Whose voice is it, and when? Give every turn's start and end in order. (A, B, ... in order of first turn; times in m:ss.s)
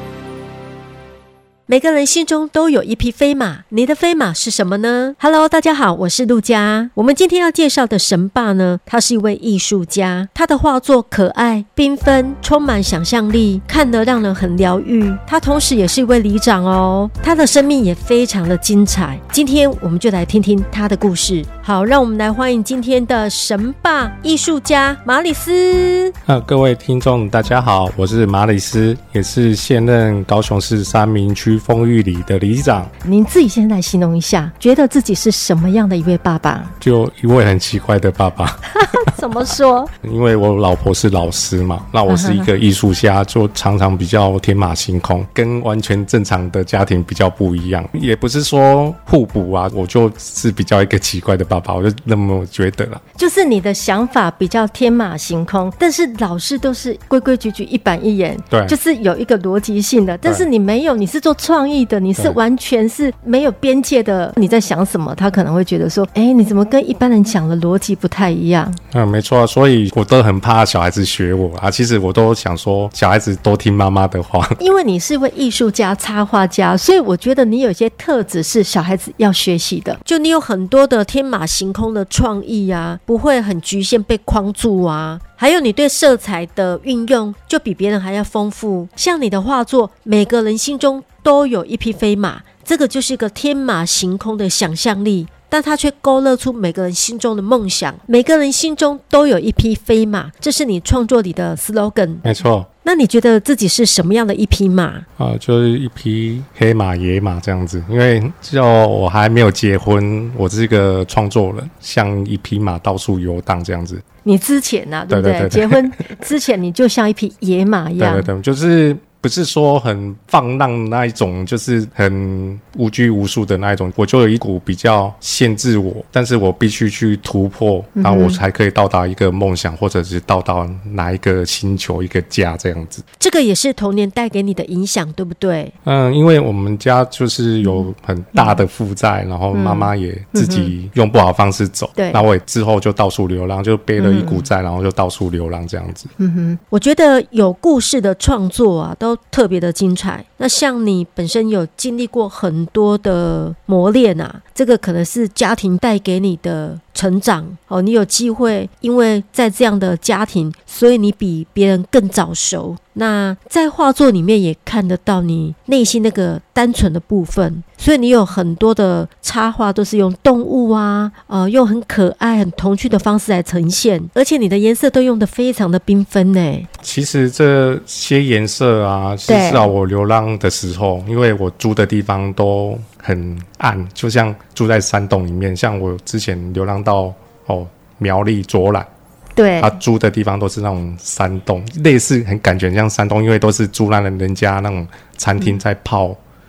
0:01.7-0:26.2 A
0:26.3-0:32.9 B
0:33.0-0:36.8 A
0:36.8-0:39.2 B
0:38.8-0:39.9 A
0:40.0-0:53.0 B
0:42.1-0:42.5 A
0:53.2-1:08.8 A
0:58.5-0:58.8 B
1:08.9-1:14.6 B
1:14.6-1:42.3 A
1:42.2-1:42.7 B
1:42.8-1:45.1 A
1:45.2-1:54.0 B
1:54.2-1:58.3 A
1:55.1-1:56.0 B
1:58.0-2:13.0 B
2:08.0-2:08.4 A
2:13.2-2:15.8 A
2:15.8-2:26.1 B
2:17.6-2:18.6 A
2:19.5-2:20.7 A
2:22.0-2:22.2 A
2:24.0-2:24.5 A
2:26.2-2:56.7 A
2:56.8-3:08.9 B
2:59.3-2:59.7 A
3:09.4-3:09.8 A
3:09.6-3:16.2 B